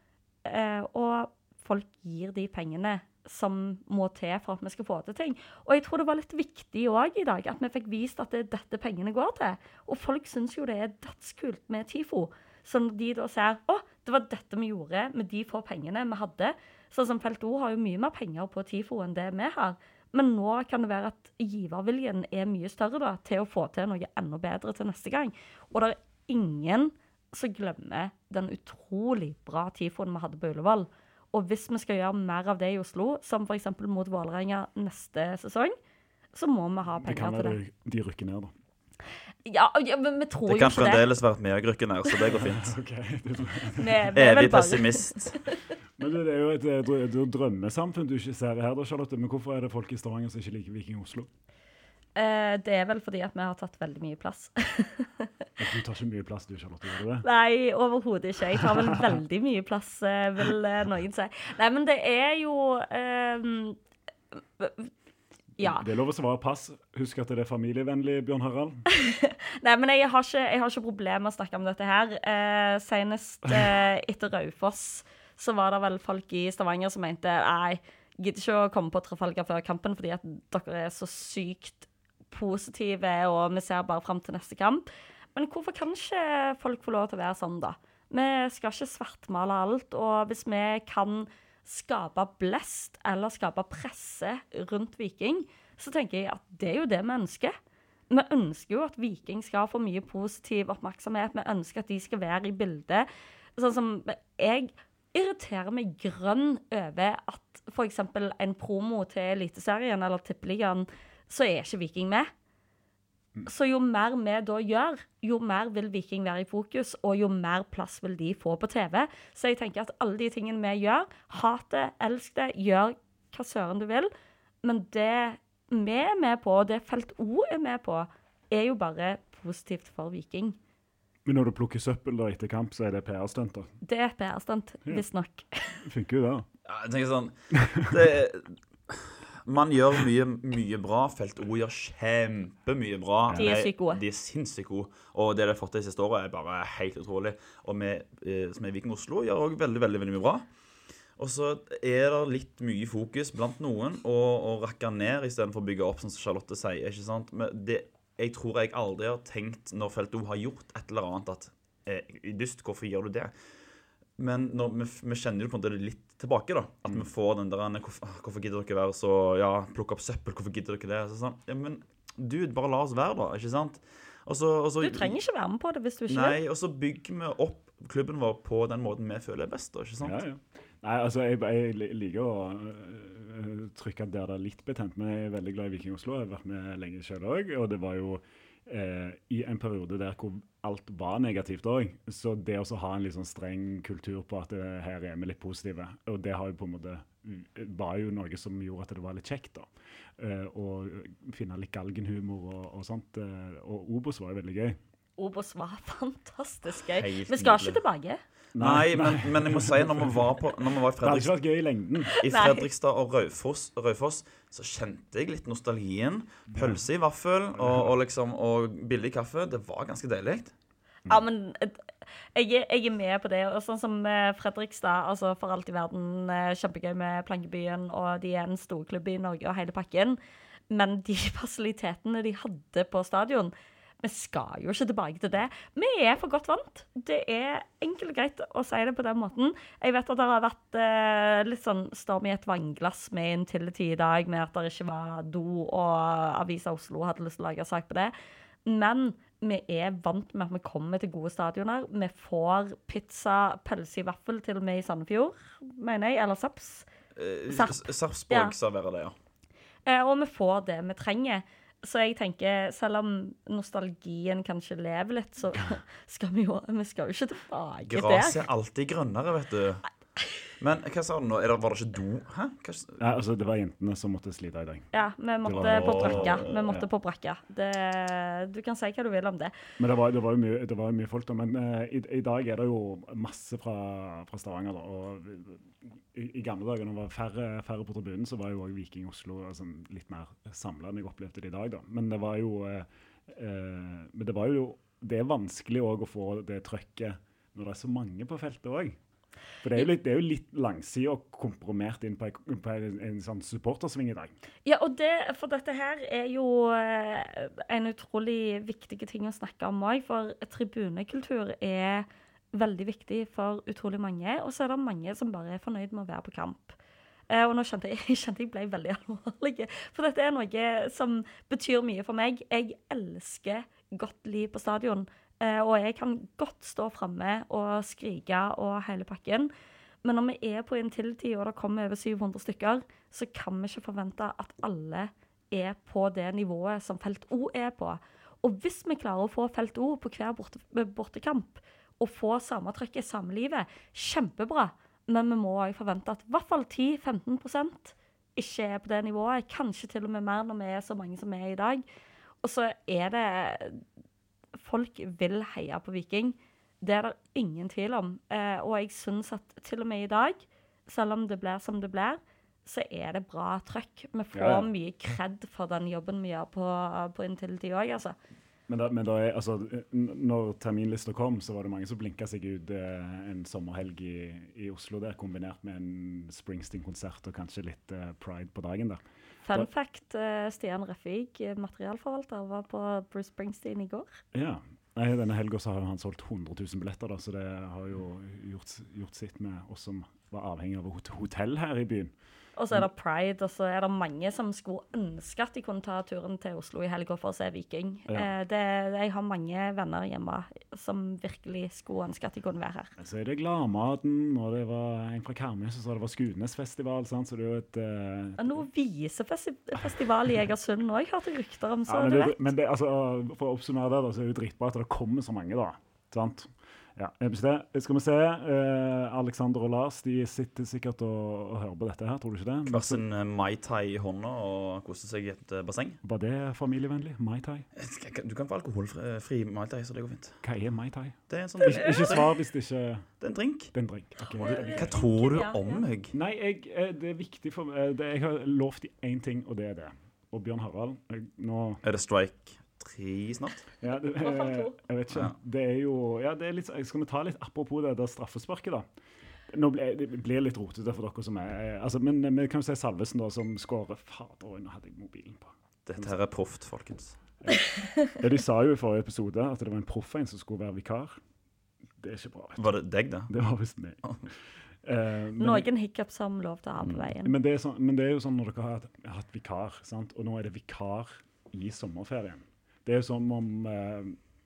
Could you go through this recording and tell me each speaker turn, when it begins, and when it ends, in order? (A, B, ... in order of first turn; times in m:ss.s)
0:00.4-0:35.8 A
0:36.3-0:37.6 A
0:37.0-0:38.5 B
0:39.4-0:41.1 A
0:40.5-0:42.8 C
0:42.3-0:44.1 B
0:43.8-0:45.6 A
0:44.1-0:45.4 C
0:46.0-0:51.3 B
0:52.1-0:55.3 A
0:55.6-0:57.2 B
0:57.2-1:03.8 A
1:04.6-1:04.9 A
1:05.6-1:05.8 A
1:05.6-1:08.8 B
1:08.9-1:37.6 A
1:38.1-1:52.3 A
1:53.4-2:04.1 A
2:04.6-2:10.6 A
2:11.2-2:13.7 B
2:13.8-2:15.8 A
2:15.8-2:16.5 B
2:16.6-2:30.4 C
2:17.5-2:18.0 B
2:23.3-2:23.6 B
2:23.4-2:24.0 A
2:31.2-2:43.3 C
2:44.2-2:55.2 C
2:54.8-2:56.4 A
2:56.1-3:00.2 C
3:00.0-3:24.8 B
3:25.2-3:28.2 A
3:26.9-3:27.8 C
3:28.5-3:30.3 B
3:28.5-3:31.3 C
3:31.0-3:32.1 B
3:32.2-3:40.5 C
3:32.2-3:32.7 A
3:36.5-3:36.8 B
3:37.5-3:37.9 B
3:41.1-3:50.2 A
3:50.7-4:08.1 A
4:08.6-4:16.9 A
4:17.2-4:19.2 C
4:17.5-4:18.5 A
4:19.8-4:28.4 A
4:27.9-4:29.9 C
4:30.6-4:33.2 C
4:33.0-4:34.9 B
4:34.9-4:39.5 A
4:35.4-4:36.9 B
4:35.5-4:36.7 C
4:39.8-4:59.0 B
4:59.6-5:04.3 B
5:04.6-5:16.8 A
5:17.3-5:29.5 A
5:30.0-5:51.8 A
5:52.4-5:53.8 A
5:54.6-6:08.2 A
6:04.3-6:04.7 B
6:08.7-6:19.7 B
6:19.4-6:24.1 A
6:24.3-6:32.1 B
6:32.6-6:42.9 A
6:43.0-6:48.6 B
6:48.4-6:52.4 A
6:51.9-7:03.0 B
7:02.7-7:06.0 C
7:06.0-7:07.6 B
7:07.8-7:10.4 C
7:10.4-7:13.1 B
7:11.3-7:12.3 C
7:11.8-7:12.1 A
7:13.2-7:13.7 C
7:13.7-7:15.0 B
7:14.4-7:15.8 A
7:14.4-7:16.1 C
7:16.1-7:21.8 B
7:21.8-7:23.7 C
7:23.8-7:28.9 B
7:24.2-7:24.8 A
7:29.5-7:36.1 B
7:35.8-7:37.2 C
7:37.4-7:41.2 B
7:42.0-7:42.8 B
7:42.6-7:43.3 C
7:43.3-7:45.7 B
7:45.4-7:47.3 A
7:47.2-7:54.2 B